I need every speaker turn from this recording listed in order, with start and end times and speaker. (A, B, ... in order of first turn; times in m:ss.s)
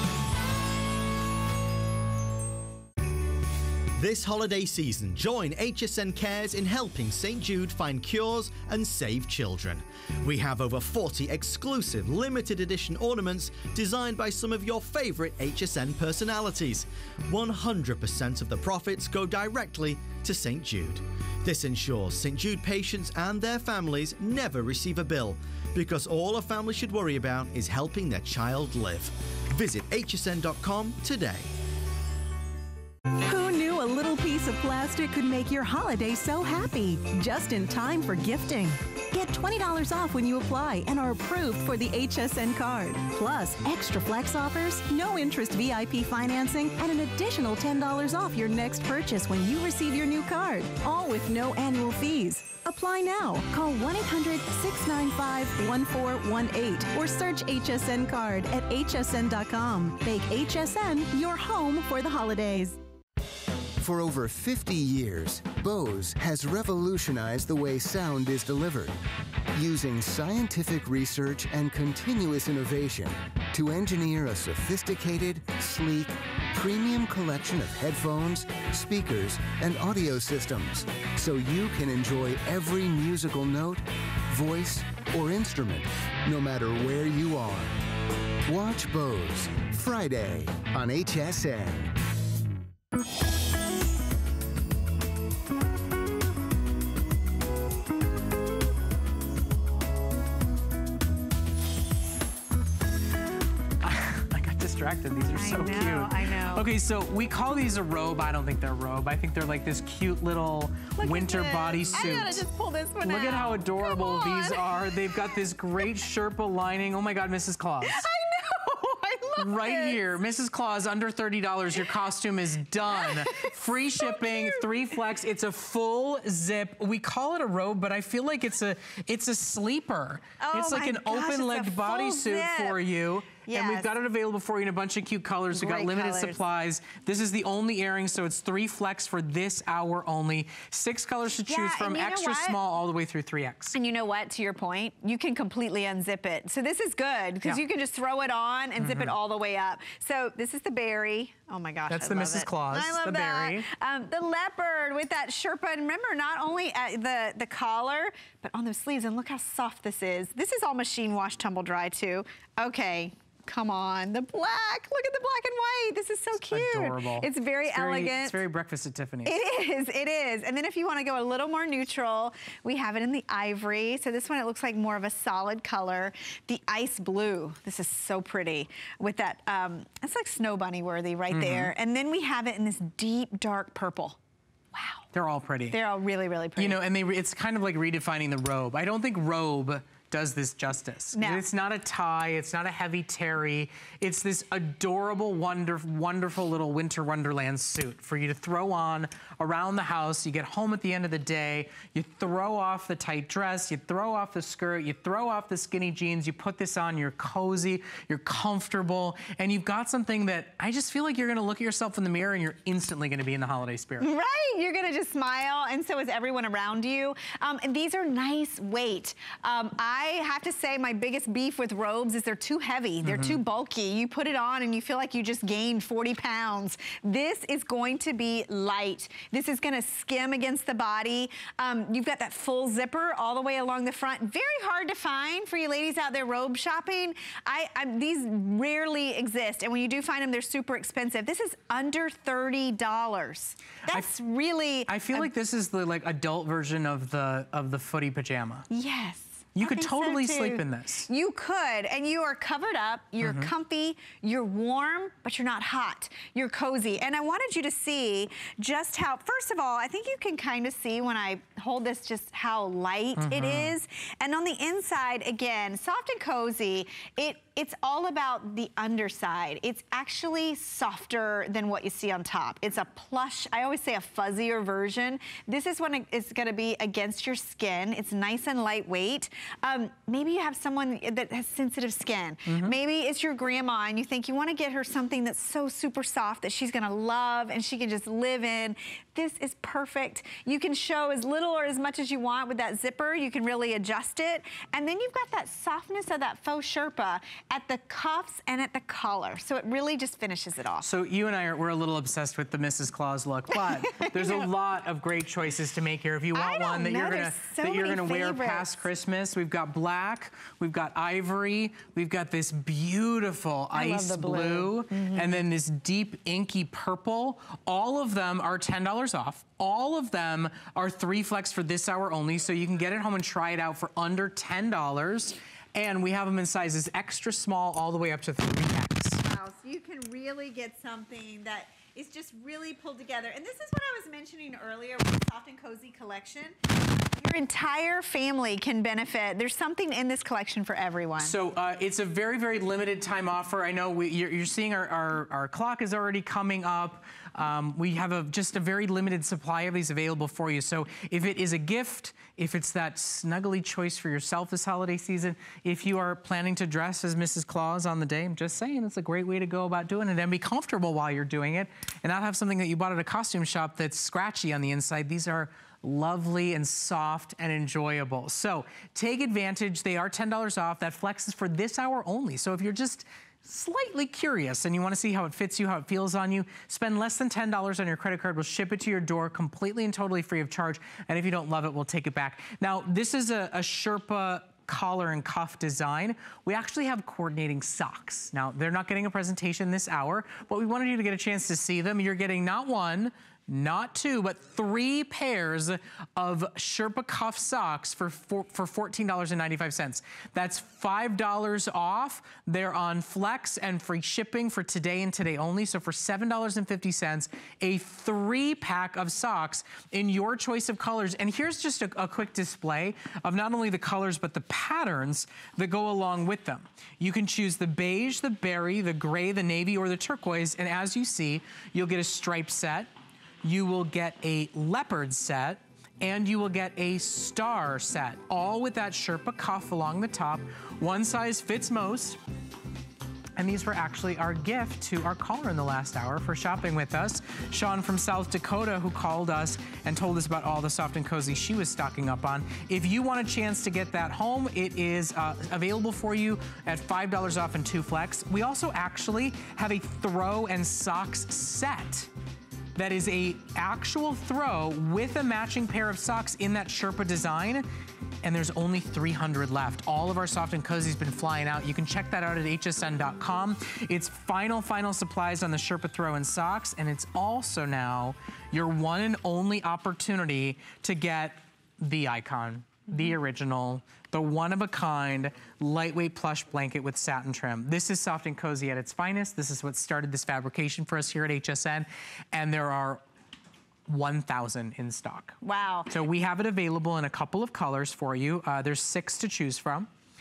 0:04.0-0:31.5 A
0:33.2-1:02.8 B
1:03.8-1:09.0 C
1:09.6-1:27.8 C
1:28.5-1:31.9 C
1:43.8-1:52.4 D
1:45.3-1:46.7 E
1:51.0-1:55.4 E
1:53.0-1:58.0 D
1:57.8-2:00.0 E
1:59.4-2:23.8 D
2:02.9-2:04.7 E
2:10.4-2:12.8 E
2:13.4-2:13.9 E
2:15.5-2:16.4 E
2:21.4-2:22.6 E
2:23.7-2:48.4 E
2:28.8-2:29.1 D
2:31.9-2:33.7 D
2:46.3-2:49.4 D
2:49.2-3:04.2 E
3:01.3-3:01.7 D
3:04.7-3:05.0 E
3:05.1-3:05.8 D
3:05.7-3:06.8 E
3:06.6-3:34.1 D
3:11.1-3:11.5 E
3:34.0-4:05.3 E
3:43.0-3:43.4 D
4:04.9-4:08.6 D
4:08.7-5:00.9 E
4:09.5-4:11.1 D
4:13.2-4:13.5 D
4:23.2-4:23.8 D
4:42.5-4:42.7 D
5:00.8-5:29.2 D
5:03.5-5:04.4 E
5:06.3-5:08.8 E
5:13.7-5:15.4 E
5:29.2-5:41.4 E
5:41.2-7:02.9 D
7:03.4-7:12.2 D
7:13.4-7:32.1 D
7:32.8-7:37.6 D
7:38.2-8:03.0 D
8:03.9-8:05.4 D
8:05.4-8:05.9 E
8:05.9-8:09.9 D